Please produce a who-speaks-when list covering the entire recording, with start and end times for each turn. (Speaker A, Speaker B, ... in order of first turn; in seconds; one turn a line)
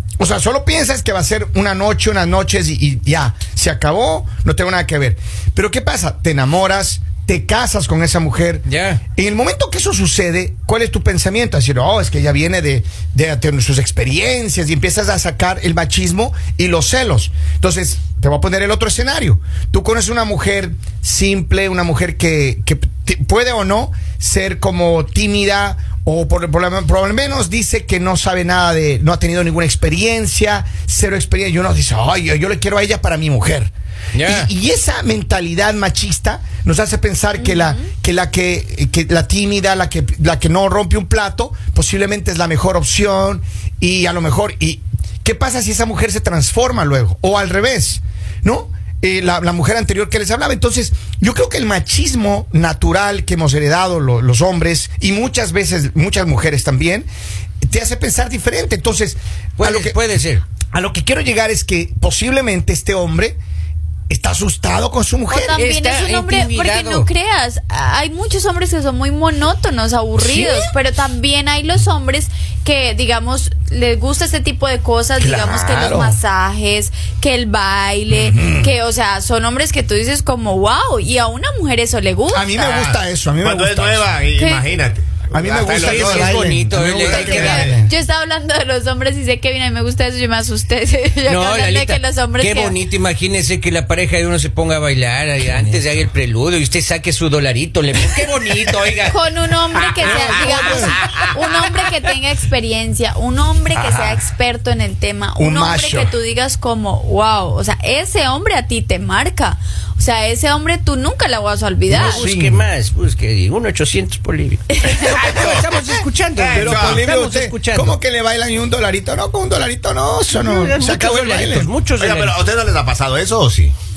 Speaker A: 0.2-57.1
Speaker B: 8.7-9.0
Speaker B: 34.1-34.5
Speaker C: 37.4-37.9
Speaker A: 57.6-60.0
Speaker B: 59.6-60.5
Speaker A: 60.7-63.4
Speaker A: 64.1-65.6
Speaker C: 65.3-82.9
Speaker B: 65.6-67.1
Speaker B: 70.2-70.7
Speaker A: 75.2-76.2
Speaker A: 78.1-78.7
Speaker A: 82.3-84.1
Speaker D: 82.6-87.7
Speaker C: 84.3-84.7
Speaker A: 85.3-87.9
Speaker B: 85.8-87.7
Speaker C: 87.0-92.8
Speaker B: 91.3-99.2
Speaker C: 99.1-112.3
Speaker B: 99.8-101.3
Speaker A: 100.0-101.2
Speaker A: 103.7-104.2
Speaker A: 105.4-106.2
Speaker B: 111.9-118.0
Speaker A: 111.9-112.6
Speaker A: 114.9-121.7
Speaker D: 116.3-117.1
Speaker B: 120.3-122.4
Speaker D: 122.0-123.7